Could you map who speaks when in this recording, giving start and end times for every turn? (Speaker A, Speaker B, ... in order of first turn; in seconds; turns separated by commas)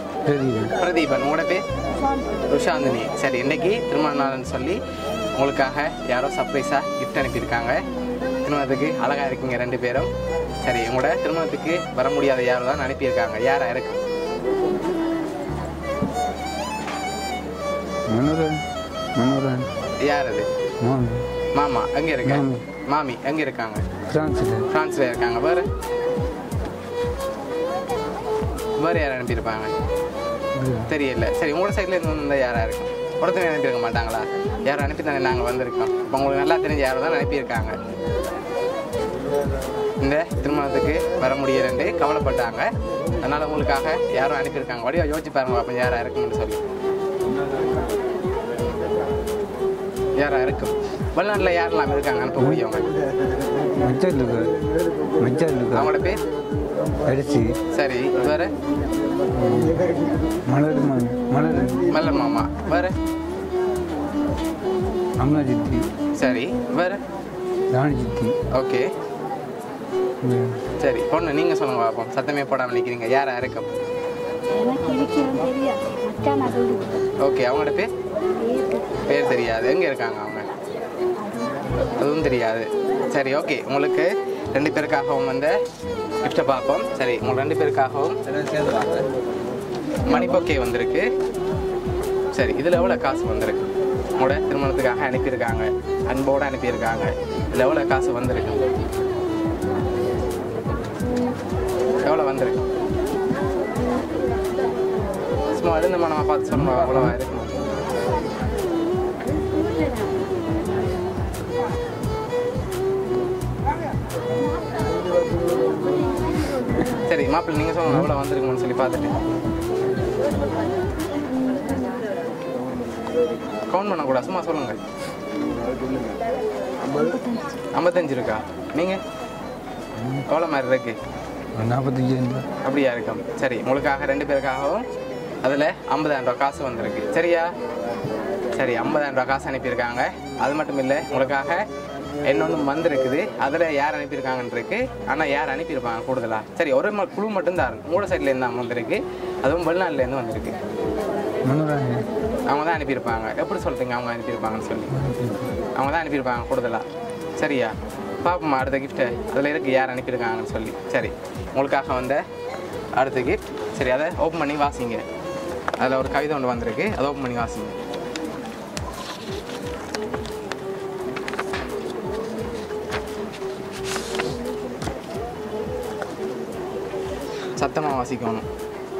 Speaker A: 0.3-0.7, Speaker B: 0.7-1.6, Speaker B: 2.5-4.8, Speaker B: 5.4-7.8, Speaker B: 8.4-10.1, Speaker B: 10.6-14.0, Speaker A: 18.1-18.6, Speaker A: 19.1-19.7, Speaker B: 20.0-20.5, Speaker A: 20.8-21.3, Speaker B: 21.5-23.8, Speaker A: 22.2-22.6, Speaker A: 24.1-24.7, Speaker B: 24.7-25.7, Speaker B: 28.8-29.7, Speaker A: 30.6-30.9, Speaker B: 30.9-37.8, Speaker B: 40.0-42.7, Speaker B: 43.2-46.6, Speaker B: 50.2-52.9, Speaker A: 52.4-52.6, Speaker A: 53.8-54.6, Speaker A: 55.2-55.9, Speaker B: 55.7-56.2, Speaker A: 57.0-57.6, Speaker B: 57.7-58.5, Speaker A: 59.3-59.9, Speaker A: 60.5-62.0, Speaker B: 61.8-62.9, Speaker A: 65.2-65.8, Speaker B: 66.2-67.0, Speaker A: 67.7-68.4, Speaker B: 68.5-68.9, Speaker A: 70.2-70.6, Speaker B: 70.8-73.7, Speaker C: 74.5-77.0, Speaker B: 77.2-77.9, Speaker C: 78.3-78.9, Speaker B: 79.0-80.5, Speaker C: 81.3-81.6, Speaker B: 81.8-85.5, Speaker B: 86.2-88.9, Speaker B: 90.0-91.1, Speaker B: 92.3-98.6, Speaker B: 102.0-102.6, Speaker B: 105.5-107.6, Speaker A: 106.5-107.1, Speaker B: 117.0-119.2, Speaker C: 121.6-122.0, Speaker B: 123.7-124.8, Speaker C: 126.9-127.5, Speaker B: 127.7-129.0, Speaker A: 130.0-130.2, Speaker B: 130.3-131.0, Speaker A: 131.6-132.5, Speaker B: 132.6-134.8, Speaker B: 135.4-137.5, Speaker B: 138.5-141.6, Speaker B: 142.2-150.6, Speaker A: 151.4-152.1, Speaker B: 152.5-155.0, Speaker A: 154.9-155.6, Speaker B: 155.7-156.8, Speaker B: 157.4-162.2, Speaker B: 162.9-165.0, Speaker B: 165.8-167.8, Speaker B: 177.6-178.4